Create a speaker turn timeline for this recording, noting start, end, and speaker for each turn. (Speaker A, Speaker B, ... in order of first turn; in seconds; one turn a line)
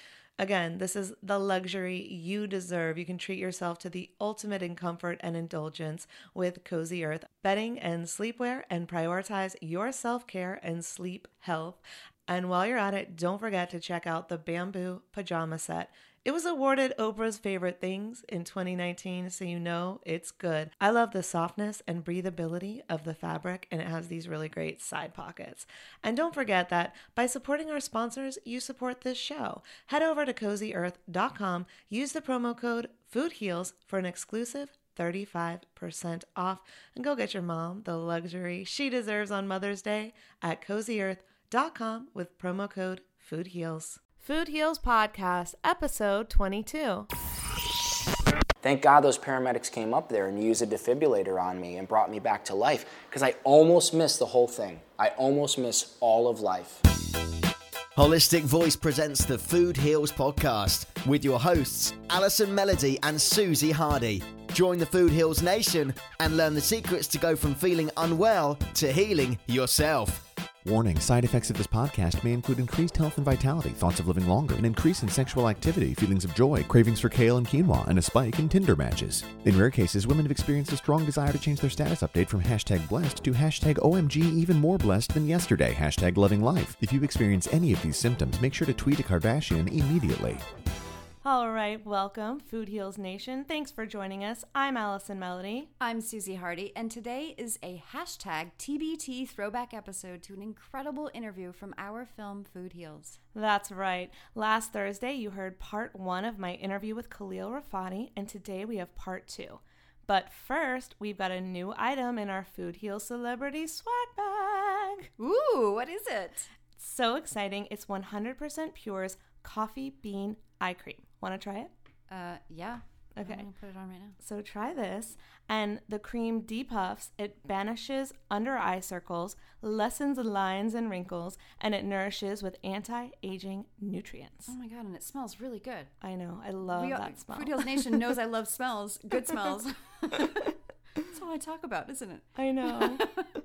Speaker A: 0.4-47.1
Speaker B: 48.6-56.8
Speaker C: 58.0-70.2
Speaker D: 70.6-90.4
Speaker A: 91.2-95.7
Speaker E: 95.8-103.2
Speaker A: 103.3-115.1
Speaker E: 115.2-116.5
Speaker A: 116.8-121.7
Speaker E: 122.1-124.2
Speaker A: 123.2-123.5
Speaker A: 124.2-134.5
Speaker E: 134.5-135.9
Speaker A: 136.0-138.0
Speaker E: 136.6-143.3
Speaker A: 142.3-143.1